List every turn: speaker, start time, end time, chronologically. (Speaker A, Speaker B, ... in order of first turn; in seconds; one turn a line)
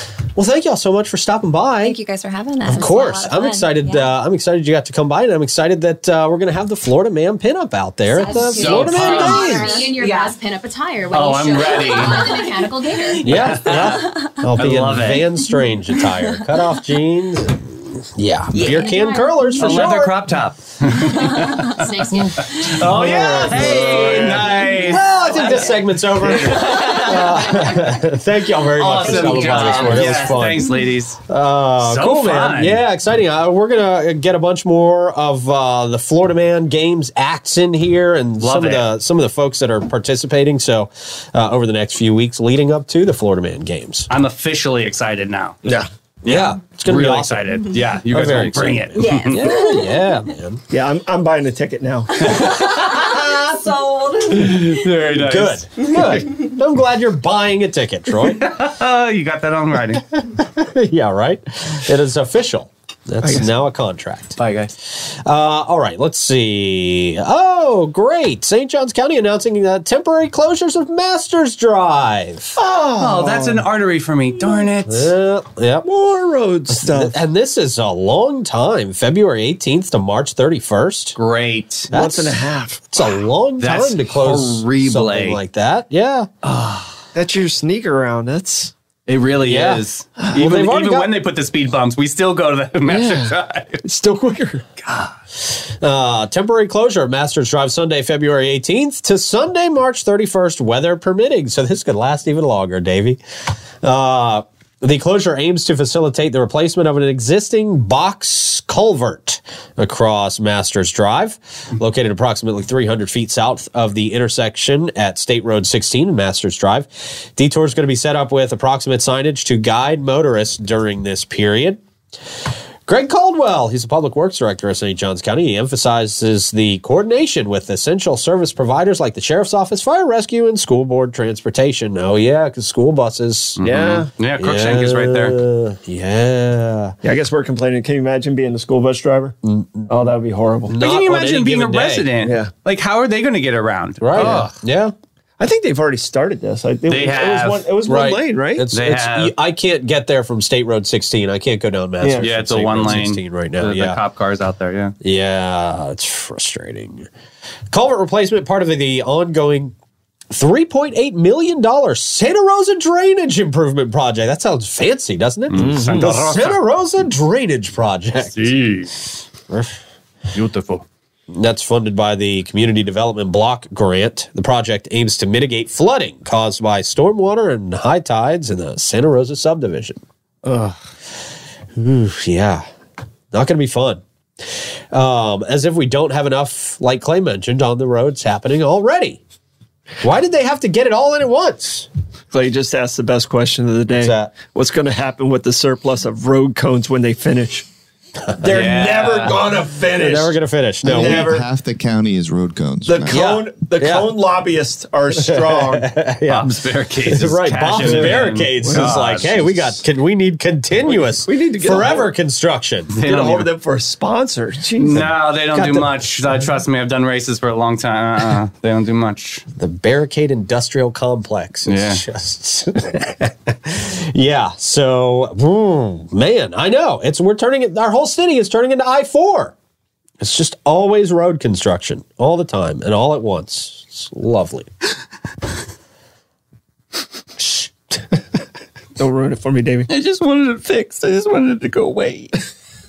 Speaker A: 0.3-2.0
Speaker B: 1.8-4.1
Speaker A: 2.6-9.7
Speaker B: 8.1-10.3
Speaker C: 8.3-9.7
Speaker D: 8.7-13.7
Speaker C: 11.1-12.4
Speaker B: 11.9-13.2
Speaker C: 13.2-15.3
Speaker A: 13.2-20.3
Speaker B: 13.9-14.6
Speaker D: 18.5-19.8
Speaker B: 18.6-18.9
Speaker C: 19.6-27.8
Speaker D: 21.2-22.8
Speaker B: 21.4-21.6
Speaker A: 22.6-44.1
Speaker D: 25.4-25.6
Speaker C: 28.8-31.2
Speaker B: 28.8-30.8
Speaker C: 31.8-32.8
Speaker C: 38.4-38.9
Speaker C: 44.1-45.6
Speaker A: 46.2-50.6
Speaker C: 46.3-49.7
Speaker B: 49.0-50.1
Speaker E: 50.7-52.4
Speaker C: 52.2-53.1
Speaker B: 52.3-54.8
Speaker A: 52.8-53.3
Speaker C: 54.3-56.2
Speaker A: 54.4-58.5
Speaker C: 58.2-60.0
Speaker A: 60.1-72.6
Speaker E: 63.2-63.5
Speaker C: 64.4-64.7
Speaker E: 72.6-73.7
Speaker C: 73.0-75.1
Speaker A: 74.8-75.9
Speaker E: 75.8-77.2
Speaker A: 76.7-81.2
Speaker C: 81.2-81.9
Speaker E: 81.9-82.9
Speaker A: 81.9-86.3
Speaker C: 83.6-85.4
Speaker C: 86.4-86.9
Speaker E: 87.1-88.7
Speaker C: 89.1-93.8
Speaker A: 89.5-91.1
Speaker E: 92.9-93.3
Speaker A: 93.9-94.6
Speaker C: 94.8-95.1
Speaker A: 95.4-103.2
Speaker A: 103.8-121.8
Speaker A: 122.9-133.7
Speaker C: 133.6-135.4
Speaker E: 133.6-134.1
Speaker A: 134.4-137.0
Speaker E: 137.0-139.3
Speaker A: 139.4-139.9
Speaker E: 139.9-140.8
Speaker A: 140.7-142.1
Speaker C: 140.8-144.5
Speaker E: 142.2-142.5
Speaker A: 144.0-144.9
Speaker E: 144.2-144.4
Speaker E: 145.4-148.7
Speaker C: 146.9-147.7
Speaker A: 147.8-154.0
Speaker C: 148.7-149.3
Speaker E: 152.0-152.3
Speaker C: 152.2-154.9
Speaker A: 155.0-157.1
Speaker A: 157.7-159.7
Speaker A: 160.3-168.5
Speaker C: 165.5-166.6
Speaker E: 165.6-166.0
Speaker C: 168.3-169.0
Speaker A: 169.5-169.7
Speaker C: 170.3-170.8
Speaker A: 171.3-180.0
Speaker C: 180.4-180.8
Speaker A: 181.8-182.7
Speaker A: 183.3-184.0
Speaker A: 184.9-189.2
Speaker A: 190.0-191.9
Speaker E: 192.3-197.7
Speaker A: 193.9-194.4
Speaker A: 198.3-198.6
Speaker E: 198.4-201.4
Speaker C: 198.5-199.4
Speaker A: 199.9-201.4
Speaker F: 200.8-203.2
Speaker E: 202.9-205.9
Speaker A: 203.1-204.2
Speaker A: 205.2-206.5
Speaker C: 206.3-209.7
Speaker A: 207.1-213.3
Speaker E: 207.8-209.4
Speaker E: 210.9-212.1
Speaker C: 212.9-213.5
Speaker E: 213.0-215.1
Speaker C: 214.8-219.4
Speaker A: 215.0-216.2
Speaker A: 219.6-229.5
Speaker C: 221.7-222.0
Speaker A: 230.2-234.7
Speaker E: 239.0-239.9
Speaker C: 239.9-242.4